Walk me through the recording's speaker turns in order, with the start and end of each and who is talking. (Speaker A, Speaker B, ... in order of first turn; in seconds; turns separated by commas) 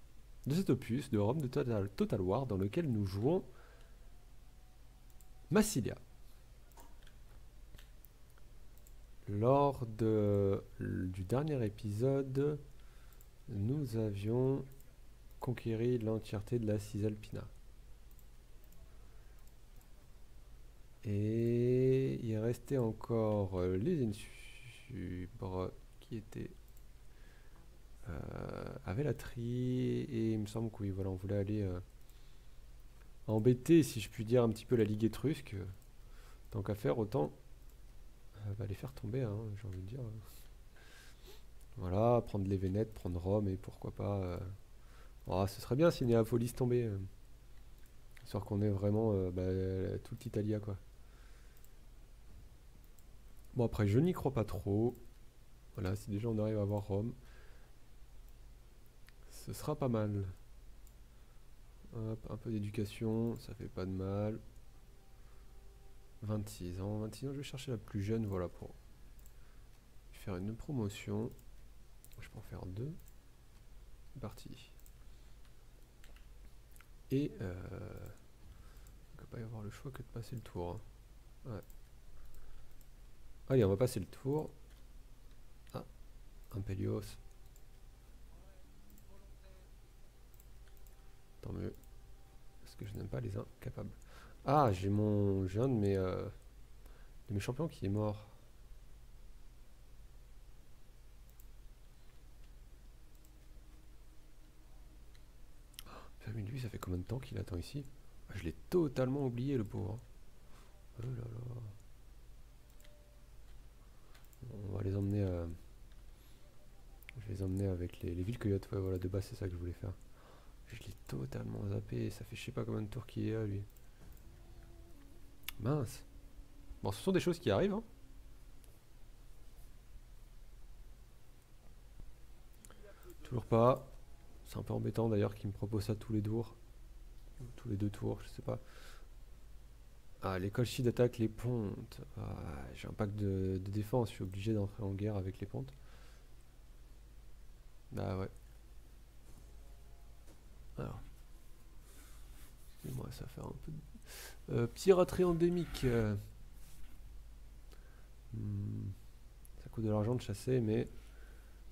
Speaker A: 0.4-3.5, Speaker A: 5.5-6.0, Speaker A: 9.3-12.6, Speaker A: 13.5-14.7, Speaker A: 15.4-17.5, Speaker A: 21.0-26.6, Speaker A: 28.0-31.8, Speaker A: 33.2-35.7, Speaker A: 36.5-37.4, Speaker A: 38.4-40.2, Speaker A: 41.8-44.6, Speaker A: 45.2-47.1, Speaker A: 48.2-50.8, Speaker A: 53.5-55.0, Speaker A: 55.7-57.2, Speaker A: 59.2-60.3, Speaker A: 61.9-64.4, Speaker A: 66.2-68.8, Speaker A: 70.1-71.3, Speaker A: 72.2-73.0, Speaker A: 74.1-74.7, Speaker A: 77.1-78.2, Speaker A: 79.1-80.8, Speaker A: 83.5-84.5, Speaker A: 86.5-87.2, Speaker A: 91.4-91.8, Speaker A: 92.6-96.3, Speaker A: 97.3-98.3, Speaker A: 105.9-110.0, Speaker A: 111.0-111.8, Speaker A: 114.4-115.6, Speaker A: 117.2-120.0, Speaker A: 120.7-123.7, Speaker A: 125.6-126.1, Speaker A: 126.8-127.9, Speaker A: 133.2-133.9, Speaker A: 134.4-136.6, Speaker A: 137.4-138.6, Speaker A: 140.2-145.7, Speaker A: 147.9-148.3, Speaker A: 150.8-151.0, Speaker A: 152.8-156.2, Speaker A: 158.3-159.0, Speaker A: 159.6-160.9